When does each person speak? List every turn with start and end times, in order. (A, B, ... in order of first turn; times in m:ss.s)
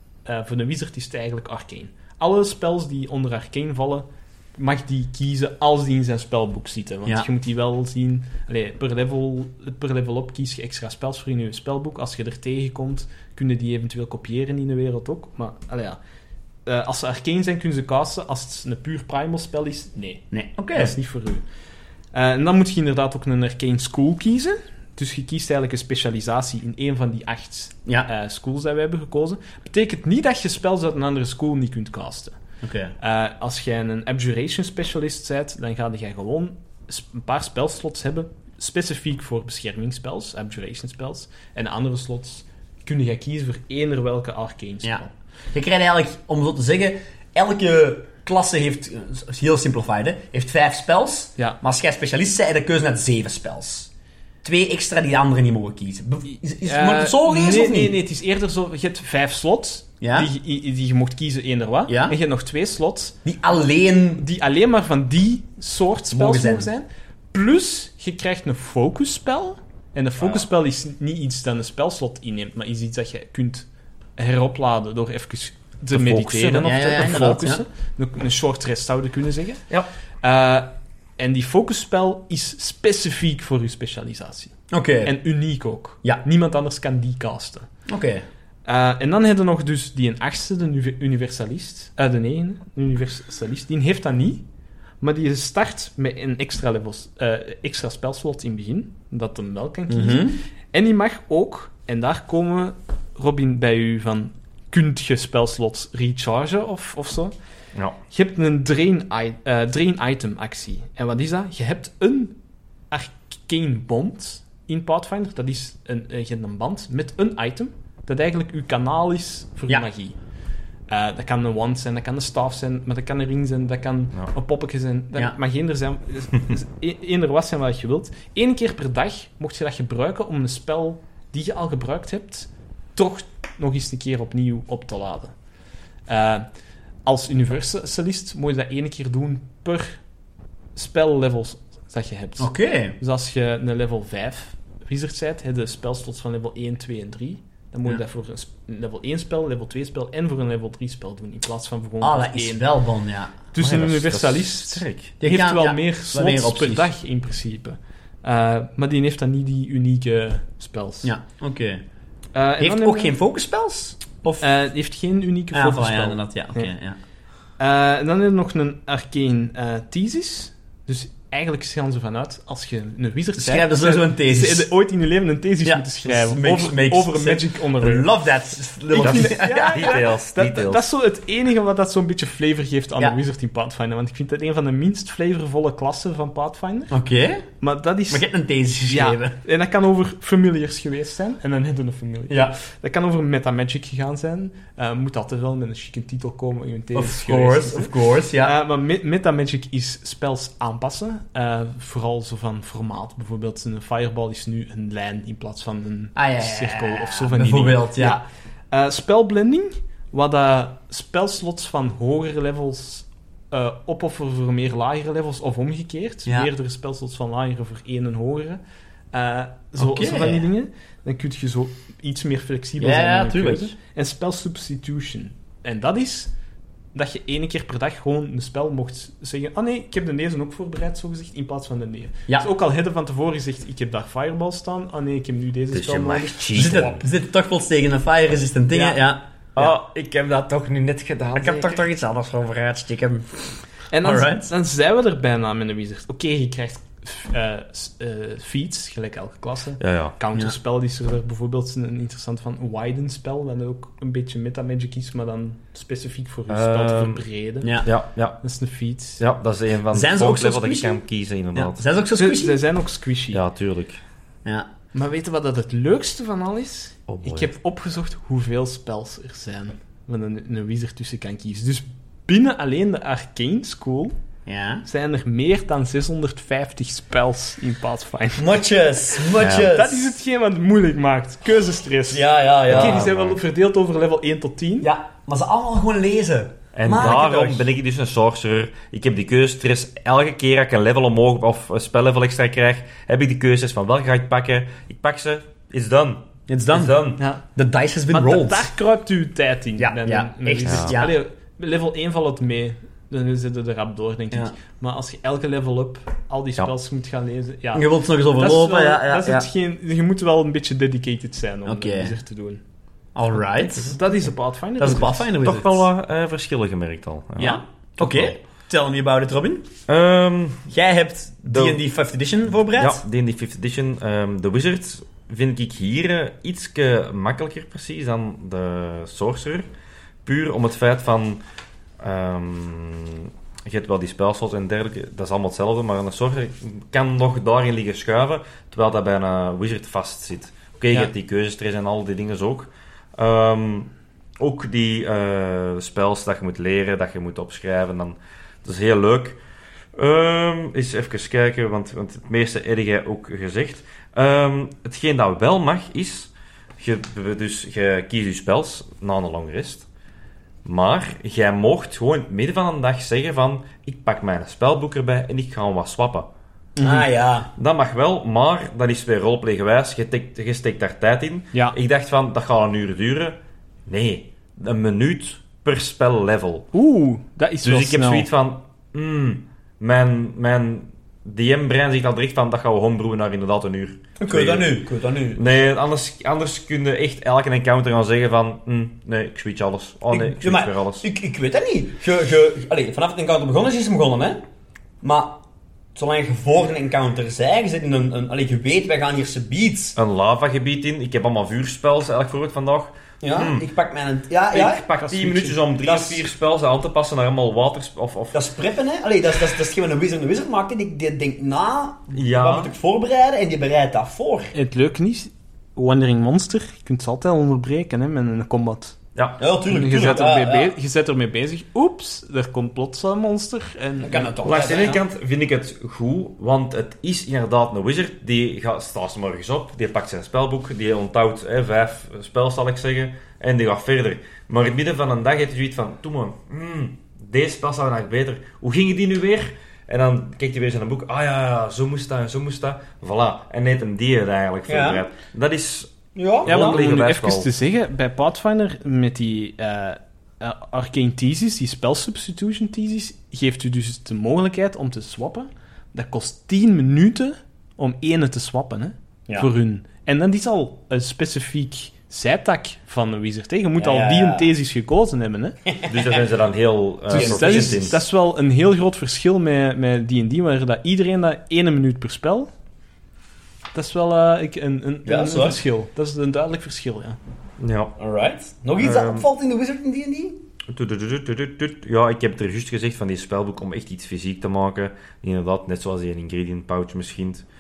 0:00.2-0:16.0 A
0:16.7-0:21.4 A
0:20.3-0:21.0 B
0:22.1-0:32.4 A
0:32.6-0:32.9 B
0:33.0-0:45.1 A
0:45.5-0:53.9 B
0:54.4-0:58.0 B
0:56.6-1:03.2 A
1:00.0-1:00.3 B
1:01.9-1:02.2 B
1:03.2-1:04.2 B
1:04.2-1:13.7 A
1:06.1-1:06.7 B
1:14.2-1:19.6 A
1:15.9-1:16.8 C
1:16.6-1:17.6 B
1:20.2-1:27.7 A
1:24.7-1:25.1 B
1:27.9-1:28.2 B
1:28.6-1:34.4 A
1:35.0-1:47.3 A
1:39.9-1:40.4 B
1:48.1-1:52.4 A
1:52.9-2:00.2 A
2:00.9-2:15.3 A
2:16.1-2:16.5 A
2:17.1-2:20.0 A
2:20.8-2:32.6 A
2:22.4-2:23.0 B
2:32.0-2:33.4 B
2:33.5-2:41.1 A
2:33.6-2:35.1 C
2:35.2-2:36.9 B
2:41.0-2:41.8 B
2:42.4-2:43.2 A
2:42.6-2:44.5 B
2:44.4-2:46.7 A
2:45.5-2:47.0 B
2:47.6-2:58.1 A
2:53.4-2:54.7 B
2:55.6-3:00.0 B
2:58.9-3:06.9 A
2:59.0-3:00.9 C
3:06.9-3:07.5 B
3:07.6-3:08.3 A
3:08.1-3:09.4 B
3:08.9-3:38.6 A
3:12.3-3:12.6 B
3:16.9-3:18.6 B
3:26.2-3:28.2 B
3:39.1-3:46.3 A
3:39.8-3:40.5 B
3:42.8-3:43.7 B
3:46.9-3:56.9 A
3:55.7-3:57.0 C
3:56.5-3:59.7 B
3:59.6-4:01.8 C
4:01.4-4:04.5 B
4:03.9-4:17.9 A
4:09.8-4:10.2 C
4:16.5-4:17.2 C
4:17.6-4:17.9 B
4:17.8-4:18.4 C
4:18.4-4:19.2 A
4:19.2-4:21.8 C
4:19.9-4:21.0 B
4:21.6-4:22.6 B
4:22.2-4:23.4 A
4:23.3-4:24.0 C
4:24.9-4:34.1 A
4:27.1-4:27.5 C
4:34.5-4:34.8 B
4:34.9-4:38.6 A
4:38.4-4:40.2 B
4:39.2-4:44.9 A
4:39.4-4:39.7 C
4:42.1-4:43.0 B
4:42.7-4:43.4 C
4:44.8-4:47.7 B
4:46.7-4:57.2 C
4:56.5-4:57.0 B
4:57.2-4:57.4 A
4:57.6-4:58.7 B
4:58.1-5:12.6 A
4:59.8-5:01.2 B
5:00.6-5:01.0 C
5:07.7-5:09.5 B
5:11.6-5:12.2 B
5:13.2-5:14.0 B
5:13.6-5:15.3 A
5:14.8-5:15.9 B
5:15.4-5:18.4 C
5:17.4-5:19.7 B
5:19.9-5:20.7 C
5:20.7-5:23.0 B
5:21.5-5:21.8 C
5:22.8-5:29.7 C
5:30.2-5:31.4 C
5:32.0-5:49.4 C
5:50.0-5:59.9 C
6:00.6-6:06.3 C
6:06.8-6:07.1 A
6:06.8-6:07.5 B
6:07.6-6:16.7 C
6:16.7-6:18.3 A
6:17.6-6:24.8 C
6:24.2-6:25.5 B
6:25.4-6:31.1 C
6:30.1-6:34.4 B
6:35.0-6:35.4 B
6:36.0-6:40.0 B
6:40.0-6:43.7 C
6:43.2-6:44.9 B
6:44.5-6:48.4 C
6:45.0-6:45.6 A
6:45.8-6:46.2 B
6:48.3-6:54.5 B
6:52.1-6:52.7 C
6:54.5-6:59.0 A
6:59.2-7:00.2 C
6:59.4-7:00.8 B
6:59.7-7:04.8 A
7:04.0-7:05.0 B
7:04.4-7:27.5 C
7:24.7-7:25.0 B
7:26.2-7:26.8 B
7:26.5-7:45.6 A
7:43.8-7:44.5 B
7:45.7-7:46.3 B
7:45.8-7:48.0 C
7:47.1-7:48.0 B
7:47.1-7:52.5 A
7:53.7-7:57.2 A
7:55.0-7:55.6 B
7:57.6-7:58.0 C
7:58.0-8:00.4 B
7:58.8-7:59.3 C
8:00.7-8:07.4 C